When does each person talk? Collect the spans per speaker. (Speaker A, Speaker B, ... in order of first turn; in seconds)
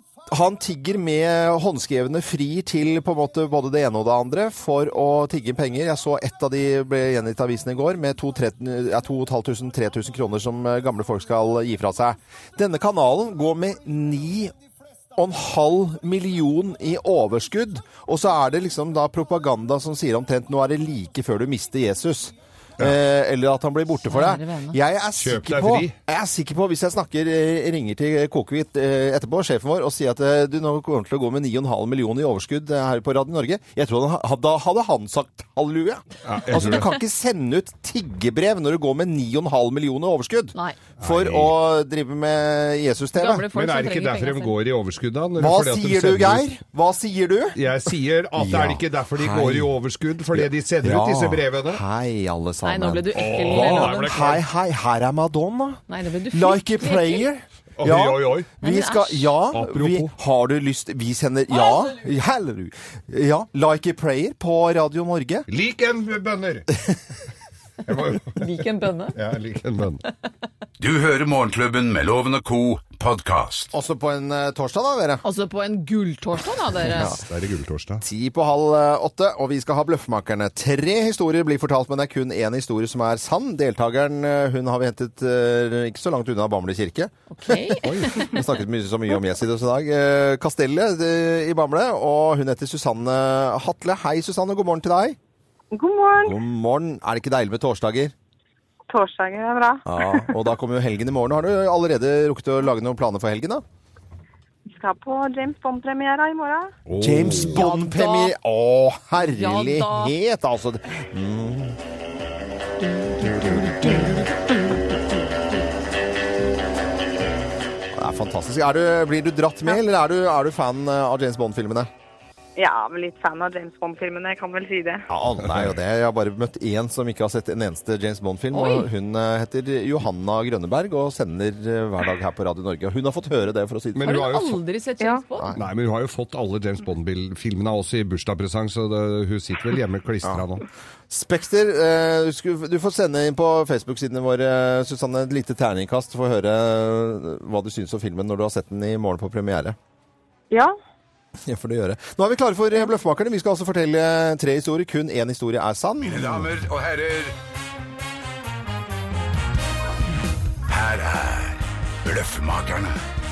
Speaker A: 0.3-14.5, 15.1-43.5, 45.4-47.6, 48.4-49.7, 50.3-65.5, 73.7-75.2, 78.0-95.2, 96.2-98.1, 99.8-103.6, 107.0-111.8, 113.2-114.1, 117.9-121.9, 125.1-134.1, 141.1-149.8, 151.4-156.5
Speaker B: 24.1-24.8, 43.2-44.6, 52.6-54.3, 55.9-57.2, 58.6-59.4, 61.5-62.0, 68.3-69.2, 75.2-77.2, 87.3-88.4, 107.3-108.3, 109.2-110.1, 128.5-128.9, 134.0-135.5
Speaker C: 25.2-25.9, 36.2-36.9, 41.0-41.5, 43.5-46.5, 47.5-51.8, 53.1-54.4, 57.8-58.5, 59.5-60.1, 65.5-66.7, 67.8-68.5, 69.1-70.0, 77.0-78.0, 87.8-88.3, 106.9-107.6, 133.9-134.6, 135.5-140.6
Speaker D: 70.8-73.7, 156.0-157.3, 160.7-163.0
Speaker E: 95.7-96.4, 98.9-100.3, 104.7-106.7, 122.6-125.0